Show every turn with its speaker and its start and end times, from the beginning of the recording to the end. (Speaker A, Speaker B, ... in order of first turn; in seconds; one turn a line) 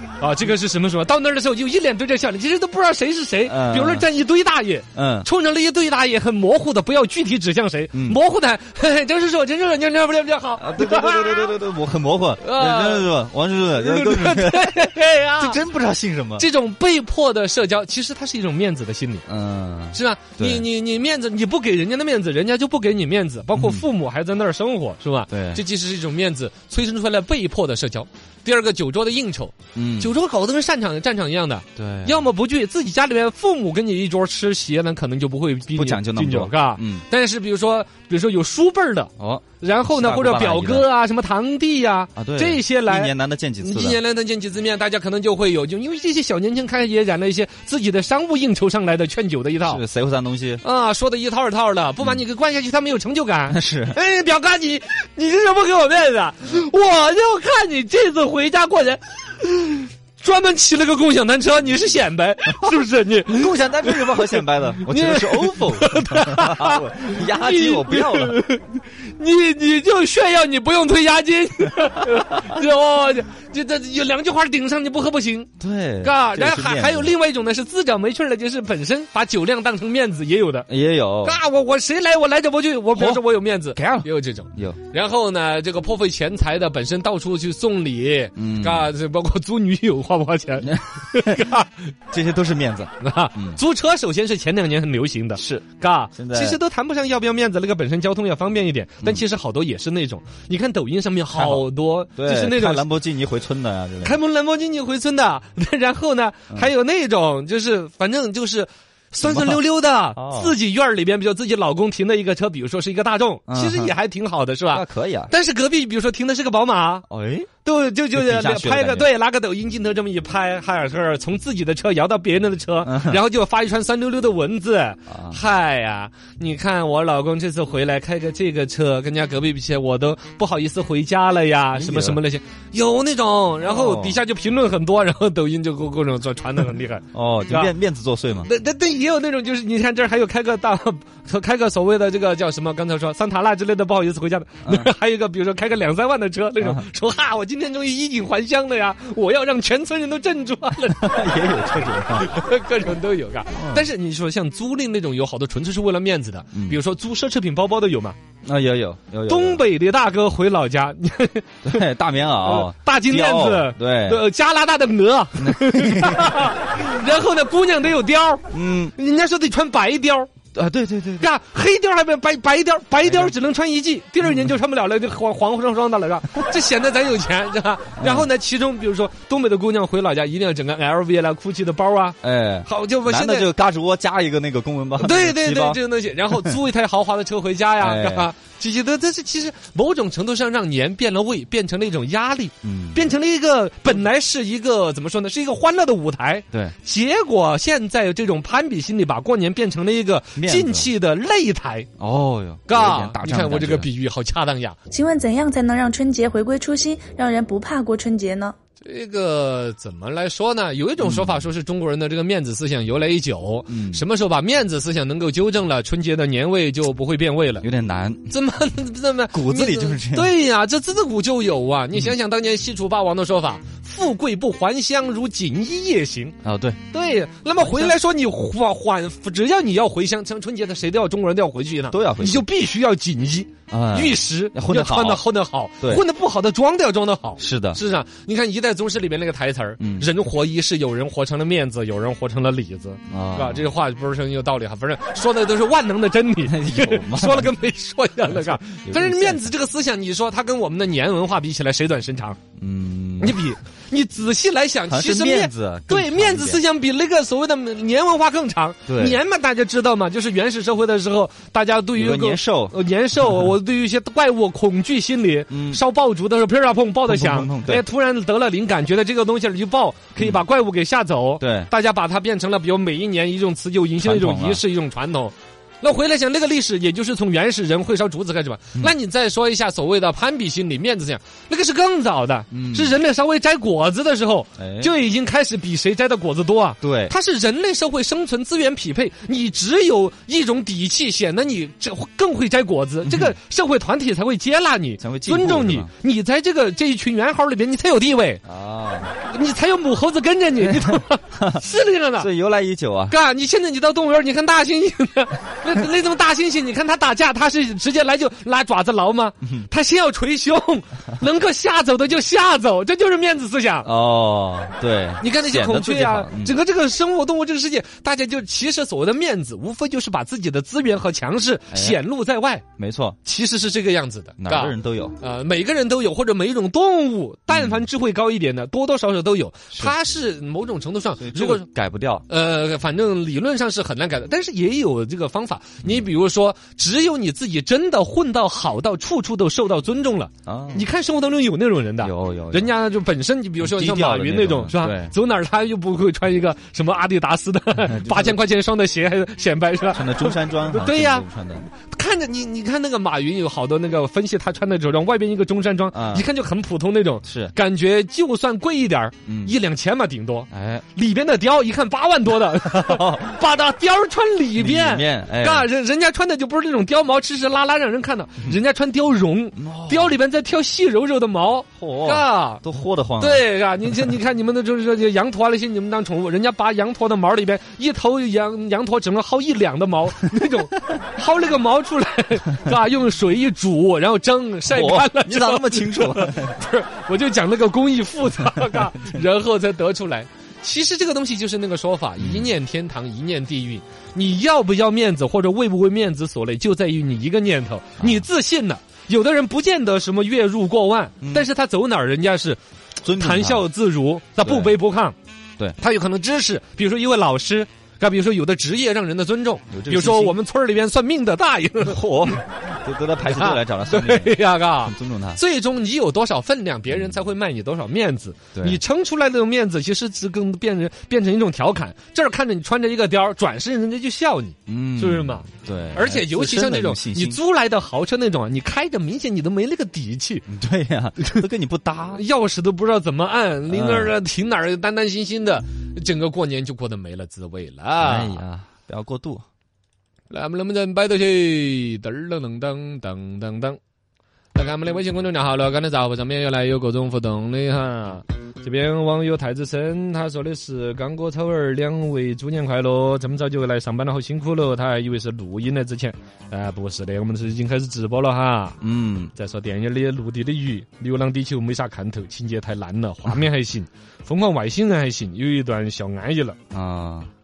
Speaker A: 0.2-11.5
Speaker B: 3.5-4.1
Speaker B: 4.9-5.3
Speaker B: 7.9-8.2
Speaker B: 10.6-16.5
Speaker A: 12.4-13.1
Speaker A: 13.7-15.6
Speaker A: 16.4-19.2
Speaker B: 19.2-20.6
Speaker A: 19.9-49.8
Speaker B: 23.5-23.8
Speaker B: 25.3-25.6
Speaker B: 29.7-30.1
Speaker B: 31.8-32.2
Speaker B: 35.7-37.0
Speaker B: 39.2-40.9
Speaker B: 42.1-44.0
Speaker B: 49.6-50.6
Speaker A: 50.6-75.5
Speaker B: 53.5-54.0
Speaker B: 63.3-68.4
Speaker B: 75.6-77.1
Speaker A: 76.0-80.7
Speaker B: 80.7-81.4
Speaker A: 81.2-91.9
Speaker B: 82.9-84.8
Speaker B: 88.3-88.9
Speaker B: 90.6-91.5
Speaker B: 92.1-93.6
Speaker A: 93.0-102.8
Speaker B: 95.3-95.6
Speaker B: 96.1-96.6
Speaker B: 101.3-104.2
Speaker A: 104.0-117.0
Speaker B: 109.2-109.6
Speaker B: 110.1-110.5
Speaker B: 113.5-113.9
Speaker B: 114.7-115.3
Speaker B: 117.1-117.5
Speaker A: 117.6-137.7
Speaker B: 118.1-119.1
Speaker B: 122.8-123.2
Speaker B: 125.1-125.4
Speaker B: 131.7-132.2
Speaker B: 133.6-134.2
Speaker B: 137.1-138.5
Speaker A: 138.4-151.1
Speaker B: 146.6-146.8
Speaker B: 150.9-152.3
Speaker A: 152.2-158.2
Speaker B: 153.5-153.9
Speaker B: 156.5-156.8
Speaker B: 158.4-159.6
Speaker A: 159.3-161.8
Speaker B: 161.6-164.2
Speaker A: 162.4-170.3
Speaker B: 165.4-166.5
Speaker B: 168.5-168.9
Speaker B: 170.5-171.3
Speaker A: 171.2-183.5
Speaker B: 173.0-173.3
Speaker B: 174.2-174.5
Speaker B: 178.0-178.3
Speaker B: 182.2-186.5
Speaker A: 185.0-201.9
Speaker B: 187.8-188.3
Speaker B: 192.6-193.1
Speaker B: 200.3-200.9
Speaker B: 202.0-203.9
Speaker A: 202.7-204.8
Speaker C: 204.9-208.5
Speaker A: 208.8-217.7
Speaker B: 211.0-211.4
Speaker B: 213.7-214.0
Speaker B: 217.6-218.3
Speaker A: 218.3-226.3
Speaker B: 219.3-220.3
Speaker B: 226.4-226.8
Speaker A: 226.9-252.4
Speaker B: 227.6-227.9
Speaker B: 231.9-232.4
Speaker B: 233.7-235.2
Speaker B: 237.4-237.8
Speaker B: 239.8-240.1
Speaker B: 243.1-243.7
Speaker B: 246.4-247.5
Speaker B: 248.3-249.5
Speaker B: 252.6-253.4
Speaker A: 253.2-298.4
Speaker B: 254.9-256.6
Speaker B: 258.9-259.2
Speaker B: 261.9-262.8
Speaker B: 265.5-265.8
Speaker B: 267.1-267.8
Speaker B: 270.2-270.4
Speaker B: 271.4-271.7
Speaker B: 274.0-274.6
Speaker B: 282.5-283.0
Speaker B: 284.6-284.9
Speaker B: 286.8-287.1
Speaker B: 293.0-293.3
Speaker B: 295.0-295.9
Speaker B: 298.4-299.1
Speaker A: 299.2-302.3
Speaker B: 300.6-301.6
Speaker B: 302.2-303.1
Speaker A: 303.1-313.9
Speaker B: 313.8-316.6
Speaker A: 315.2-322.6
Speaker B: 321.7-322.0
Speaker B: 322.8-323.2
Speaker A: 323.2-331.6
Speaker B: 324.4-325.1
Speaker B: 327.5-327.8
Speaker B: 331.2-332.2
Speaker A: 332.3-372.6
Speaker B: 340.4-340.9
Speaker B: 342.0-342.7
Speaker B: 343.6-345.1
Speaker B: 347.8-348.4
Speaker B: 349.9-351.7
Speaker B: 355.9-356.3
Speaker B: 357.2-357.5
Speaker B: 359.2-359.6
Speaker B: 360.5-360.9
Speaker B: 362.7-363.4
Speaker B: 364.6-365.7
Speaker B: 369.6-370.2
Speaker B: 371.8-373.4
Speaker A: 373.2-402.6
Speaker B: 384.7-386.6
Speaker B: 388.4-389.2
Speaker B: 392.2-392.5
Speaker B: 398.0-398.2
Speaker B: 401.2-401.5
Speaker B: 403.0-403.6
Speaker A: 403.1-405.1
Speaker B: 404.4-404.8
Speaker A: 405.8-412.4
Speaker B: 409.7-410.4
Speaker B: 411.8-415.4
Speaker A: 413.2-430.4
Speaker B: 416.9-417.2
Speaker B: 418.5-418.8
Speaker B: 424.7-427.4
Speaker B: 430.5-432.2
Speaker A: 432.1-438.4
Speaker B: 433.7-434.1
Speaker B: 438.0-439.4
Speaker A: 440.3-443.8
Speaker A: 444.5-458.8
Speaker B: 458.8-459.3
Speaker A: 459.3-466.6
Speaker B: 466.7-467.3